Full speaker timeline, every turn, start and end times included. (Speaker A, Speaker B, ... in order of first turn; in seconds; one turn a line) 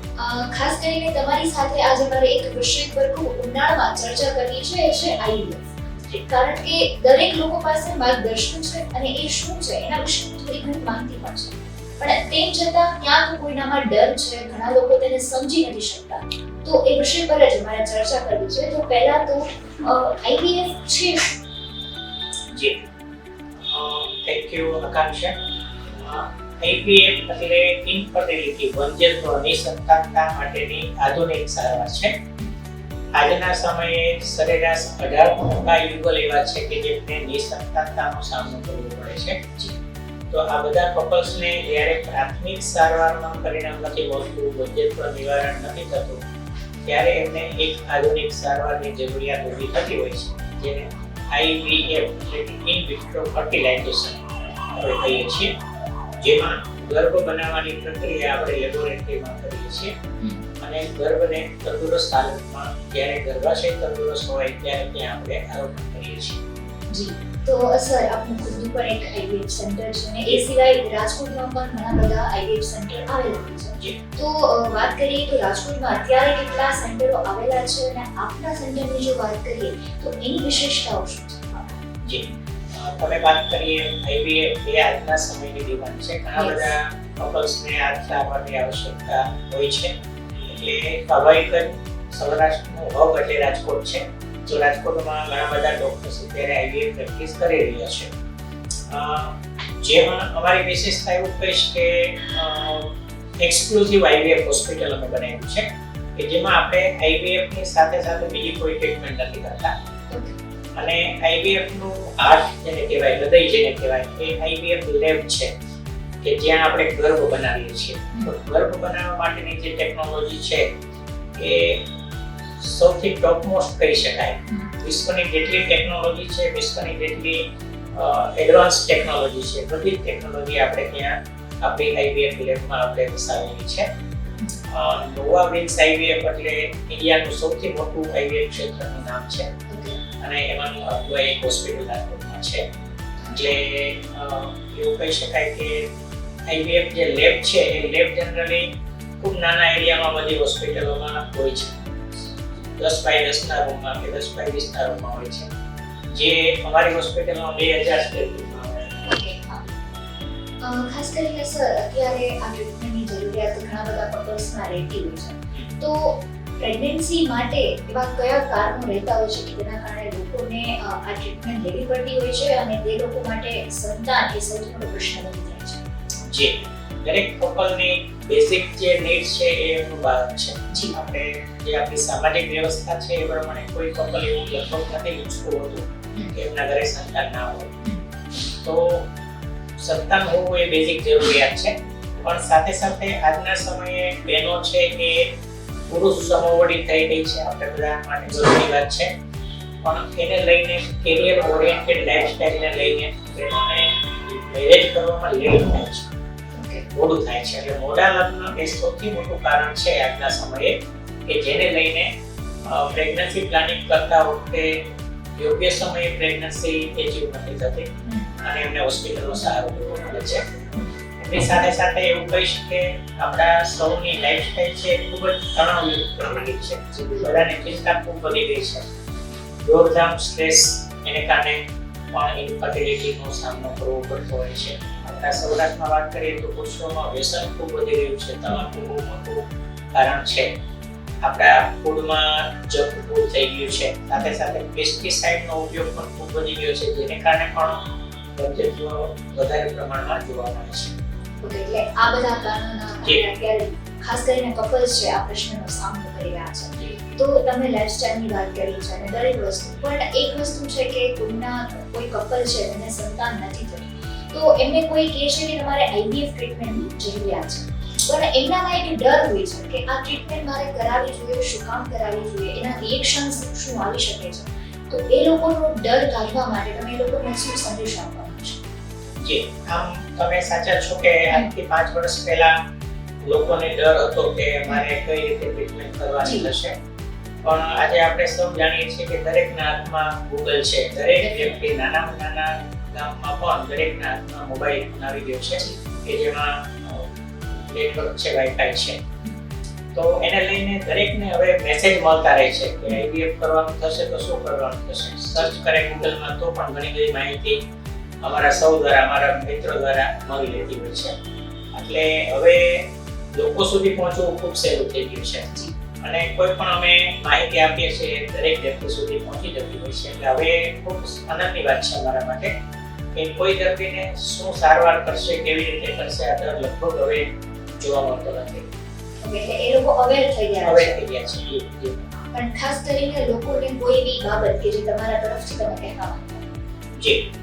Speaker A: 0.2-21.3
Speaker B: 22.5-22.8
Speaker B: 23.7-25.4
Speaker B: 26.0-32.2
Speaker B: 33.1-39.5
Speaker B: 40.3-46.2
Speaker B: 46.9-54.2
Speaker B: 54.7-55.5
Speaker B: 56.2-59.9
Speaker B: 60.6-66.4
Speaker A: 66.9-81.7
Speaker B: 82.0-89.9
Speaker A: 86.3-86.8
Speaker B: 90.5-98.1
Speaker B: 98.9-109.7
Speaker A: 110.1-110.4
Speaker B: 110.8-115.5
Speaker B: 116.2-120.7
Speaker B: 121.4-121.8
Speaker B: 122.6-133.9
Speaker A: 124.5-124.7
Speaker B: 134.7-139.5
Speaker A: 139.7-140.0
Speaker B: 140.2-142.7
Speaker A: 143.2-143.5
Speaker B: 143.3-145.9
Speaker B: 146.5-151.9
Speaker B: 152.8-155.5
Speaker B: 156.1-159.1
Speaker A: 159.1-159.7
Speaker A: 160.6-175.8
Speaker B: 176.2-187.7
Speaker A: 180.7-180.9
Speaker B: 188.6-189.1
Speaker B: 189.8-195.3
Speaker B: 195.9-199.1
Speaker B: 199.8-206.1
Speaker A: 206.5-206.9
Speaker B: 206.9-210.7
Speaker B: 211.3-212.1
Speaker B: 212.7-214.8
Speaker B: 215.4-217.9
Speaker A: 218.0-218.3
Speaker B: 218.4-220.5
Speaker B: 221.2-228.8
Speaker A: 226.9-227.3
Speaker B: 229.6-231.6
Speaker B: 232.1-240.5
Speaker B: 241.2-247.8
Speaker B: 248.3-250.9
Speaker A: 251.4-278.6
Speaker B: 279.2-282.5
Speaker B: 283.2-286.8
Speaker A: 286.2-286.5
Speaker B: 287.4-299.0
Speaker A: 291.2-291.6
Speaker B: 299.9-307.6
Speaker B: 308.2-311.1
Speaker B: 311.7-315.5
Speaker A: 315.5-315.7
Speaker B: 316.0-322.5
Speaker B: 323.1-328.7
Speaker A: 329.2-330.9
Speaker B: 330.6-332.1
Speaker A: 332.3-336.4
Speaker B: 337.0-337.3